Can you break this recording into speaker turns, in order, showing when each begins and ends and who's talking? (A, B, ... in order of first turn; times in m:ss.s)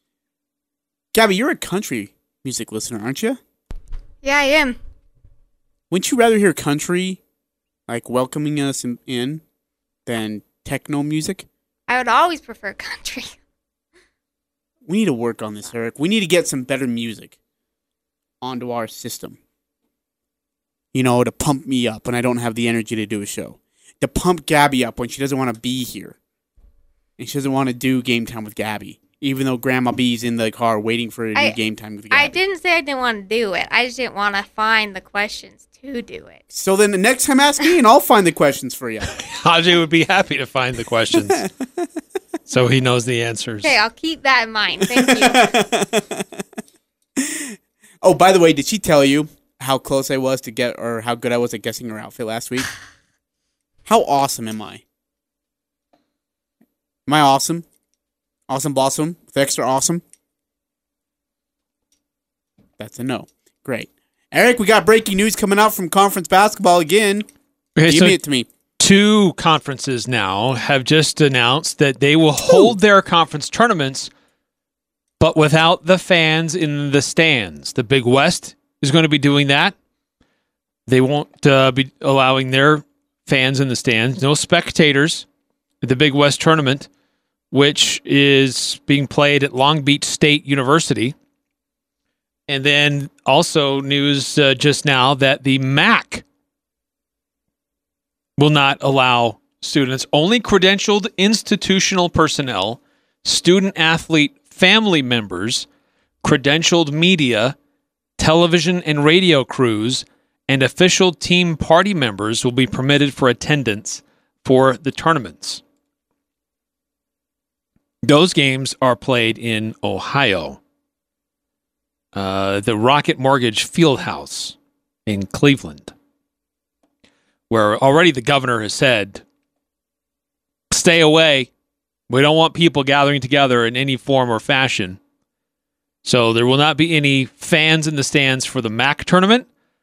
0:01.1-0:03.4 A
0:04.2-0:04.8 B
0:05.9-0:07.2 A
0:07.9-0:09.4 A
0:10.1-0:11.5 A
0:11.9-0:13.4 B
0:14.9-0:17.4 A
0:18.4-0:19.4 A
0:20.9-0:26.2 A
0:27.2-0:32.4 A
0:32.1-0:36.4 B
0:36.5-0:39.1 A
0:39.2-0:41.5 C
0:42.5-0:43.8 C
0:43.6-0:45.5 B
0:44.8-0:46.4 A
0:47.2-0:52.7 A
0:53.9-0:54.8 A
0:57.1-0:57.7 A
0:58.5-1:00.0 A
1:02.8-1:07.3 A
1:07.8-1:08.2 C
1:07.9-1:08.5 A
1:08.8-1:14.1 C
1:12.5-1:12.7 A
1:15.2-1:19.8 C
1:20.9-1:25.3 C
1:25.8-1:26.9 C
1:27.5-1:31.2 C
1:32.5-1:36.2 C
1:38.4-1:45.7 C
1:46.2-1:47.6 C
1:48.2-1:55.6 C
1:58.0-2:00.6 C
2:02.1-2:05.9 C
2:07.5-2:09.2 C
2:10.7-2:11.5 C
2:12.1-2:15.0 C
2:16.0-2:19.5 C